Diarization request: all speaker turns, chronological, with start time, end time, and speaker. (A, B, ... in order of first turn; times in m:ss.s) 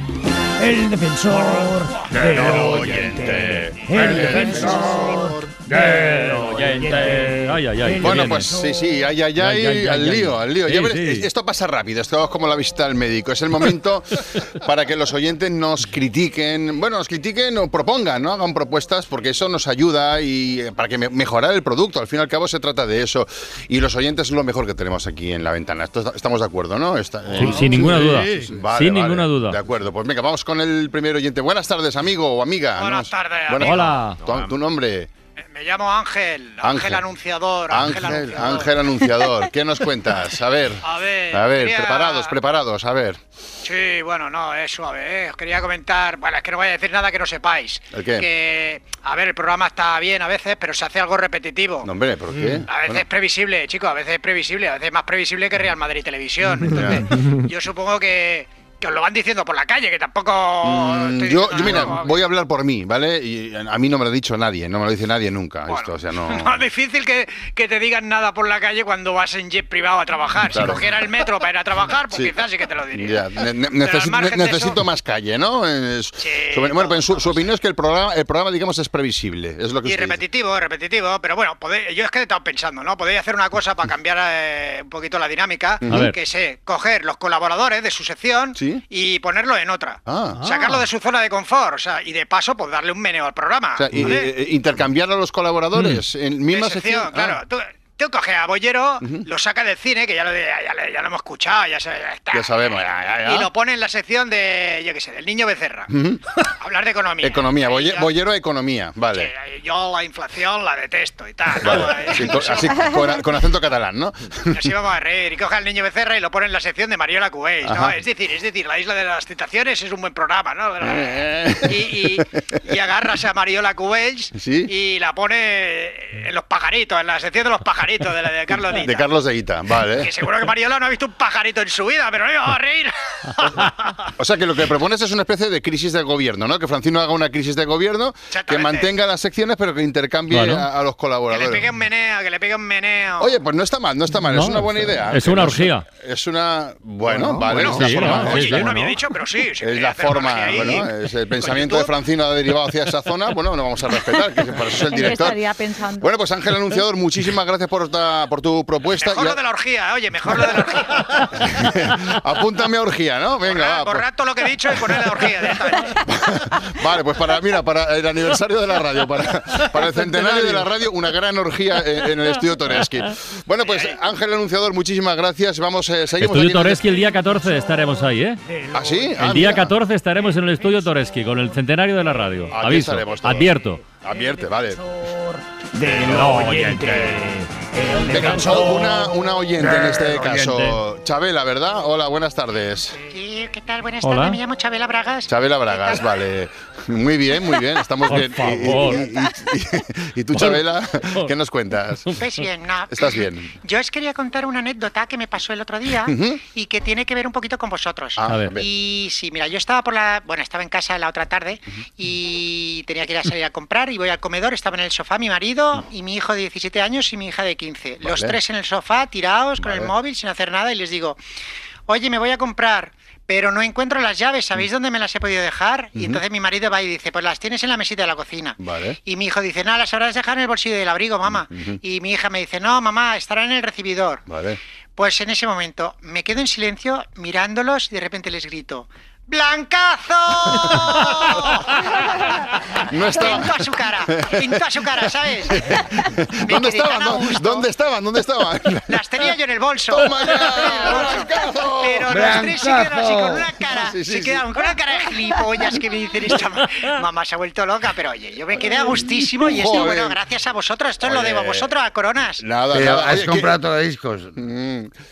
0:00.6-0:08.6 A
0:02.1-0:05.3 B
0:04.0-0:04.7 C
0:05.6-0:08.5 C
0:08.0-0:35.1 B
0:09.4-0:11.3 C
0:27.3-0:29.6 C
0:27.4-0:27.7 D
0:32.8-0:34.5 D
0:33.6-0:34.2 C
0:35.5-0:38.7 D
0:36.6-0:37.0 B
0:37.7-0:43.2 B
0:40.8-0:42.4 D
0:43.6-0:51.9 D
0:47.9-0:48.3 B
0:51.8-0:53.0 B
0:52.6-1:02.2 D
0:56.6-0:57.1 B
1:00.6-1:06.6 B
1:05.7-1:14.8 D
1:10.5-1:10.8 B
1:12.9-1:20.2 B
1:16.2-1:17.4 D
1:19.8-1:34.3 D
1:25.8-1:26.1 B
1:25.9-1:26.1 C
1:28.6-1:28.8 B
1:30.0-1:30.6 B
1:33.8-1:37.4 B
1:35.7-1:36.0 C
1:36.5-1:45.9 D
1:42.3-1:43.5 B
1:45.9-1:46.3 B
1:46.4-1:48.1 D
1:47.2-1:49.3 B
1:49.1-1:53.2 D
1:51.5-1:54.7 B
1:54.5-2:09.1 D
1:57.6-1:58.0 B
2:00.8-2:02.3 B
2:04.4-2:04.7 B
2:08.8-2:10.1 B
2:09.8-2:14.1 D
2:13.5-2:21.7 B
2:18.3-2:18.9 D
2:20.3-2:20.7 C
2:21.3-2:23.3 D
2:23.2-2:28.7 B
2:24.2-2:25.8 C
2:27.1-2:28.1 E
2:27.5-2:29.0 C
2:27.5-2:31.9 D
2:29.6-2:39.4 B
2:34.9-2:36.1 A
2:39.0-2:41.5 D
2:41.2-2:57.1 B
2:43.5-2:46.1 D
2:50.0-2:50.6 C
2:53.6-2:54.0 D
2:56.2-2:58.4 C
2:58.5-2:59.0 A
2:58.7-2:59.8 B
2:59.1-3:03.8 C
3:02.5-3:04.8 B
3:05.7-3:09.0 A
3:06.0-3:07.1 C
3:06.1-3:06.4 B
3:08.0-3:13.0 B
3:08.1-3:08.5 C
3:09.7-3:10.5 A
3:13.0-3:16.1 D
3:14.0-3:14.4 C
3:15.3-3:22.2 B
3:18.0-3:19.1 C
3:20.3-3:21.3 C
3:22.1-3:41.2 D
3:22.9-3:23.5 B
3:26.0-3:26.4 B
3:28.2-3:28.7 B
3:28.3-3:28.5 C
3:38.0-3:38.4 B
3:39.6-3:39.9 B
3:41.9-3:54.2 D
3:45.9-3:46.2 B
3:48.6-3:49.0 B
3:51.2-3:51.8 B
3:54.3-3:54.6 B
3:55.0-4:05.6 D
4:02.8-4:09.3 B
4:06.4-4:07.7 D
4:08.8-4:22.4 D
4:09.9-4:12.6 B
4:12.1-4:13.5 E
4:13.6-4:14.7 B
4:19.4-4:20.2 B
4:21.0-4:21.7 B
4:22.4-4:23.6 B
4:22.7-4:24.4 E
4:24.4-4:24.9 B